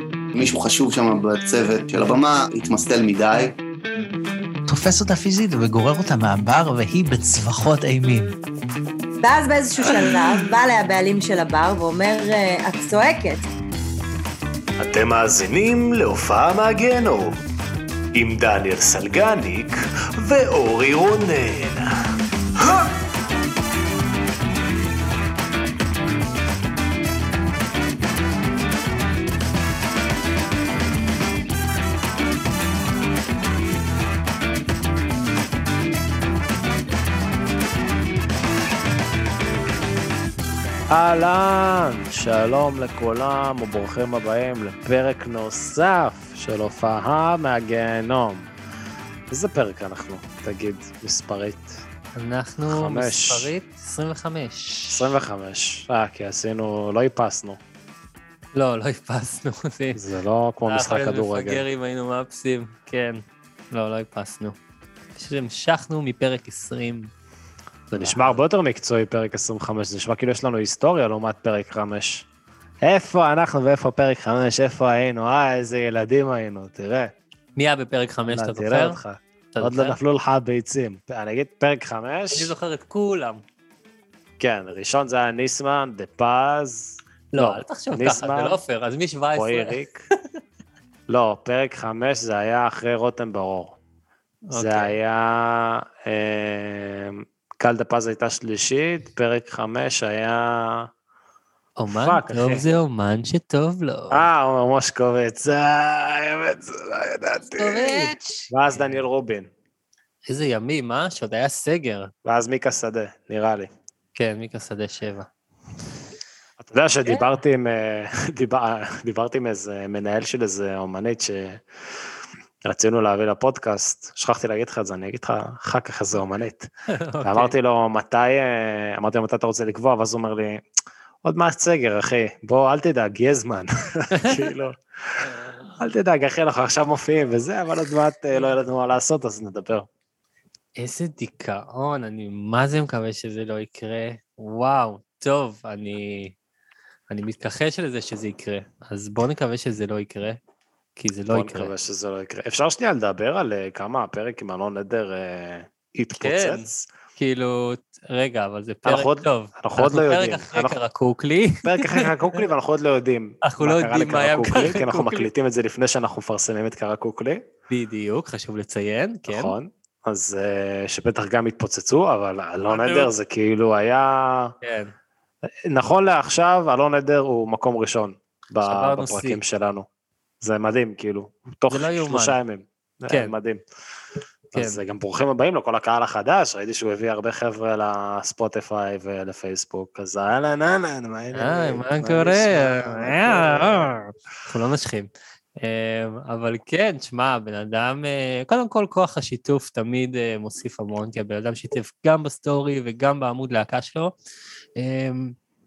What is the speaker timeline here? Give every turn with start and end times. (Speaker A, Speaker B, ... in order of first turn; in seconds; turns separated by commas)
Speaker A: 0.3-3.5, Speaker B: 4.7-8.3, Speaker C: 9.2-13.4, Speaker D: 14.8-17.4, Speaker D: 18.1-21.9, Speaker D: 22.6-22.9, Speaker D: 40.9-48.5, Speaker D: 49.3-51.8, Speaker E: 52.1-55.1, Speaker D: 52.7-53.5, Speaker D: 54.9-57.6, Speaker E: 58.5-60.0, Speaker D: 60.0-61.6, Speaker E: 60.6-64.5, Speaker E: 65.2-67.1, Speaker E: 67.9-68.4, Speaker D: 67.9-72.2, Speaker D: 72.8-77.1, Speaker E: 77.6-79.0, Speaker D: 78.3-82.5, Speaker E: 79.5-80.0, Speaker E: 82.3-83.4, Speaker D: 84.4-88.6, Speaker E: 87.3-89.8, Speaker D: 89.3-90.1, Speaker D: 91.1-93.8, Speaker E: 94.5-94.9, Speaker D: 94.5-100.9, Speaker E: 101.8-104.2, Speaker D: 101.9-102.7, Speaker D: 104.1-109.5, Speaker E: 107.6-109.0, Speaker E: 110.3-112.1, Speaker D: 112.2-113.7, Speaker E: 114.2-115.3, Speaker D: 116.6-121.6, Speaker D: 122.7-126.7, Speaker E: 126.9-127.5, Speaker D: 127.2-130.6, Speaker D: 131.2-139.9, Speaker E: 134.2-134.4, Speaker E: 140.8-146.3, Speaker E: 147.1-150.4, Speaker E: 151.0-151.7, Speaker D: 151.3-156.9, Speaker E: 156.2-162.1, Speaker D: 158.8-160.8, Speaker D: 161.6-167.4, Speaker E: 163.4-165.3, Speaker E: 167.7-169.5, Speaker D: 169.3-174.5, Speaker E: 172.7-173.1, Speaker E: 174.6-174.9, Speaker D: 175.7-179.8, Speaker E: 178.6-179.4, Speaker D: 180.4-183.6, Speaker E: 181.7-182.4, Speaker E: 184.5-184.8, Speaker D: 184.5-194.0, Speaker E: 191.3-193.9, Speaker E: 194.4-195.1, Speaker E: 195.6-204.1, Speaker E: 204.8-205.3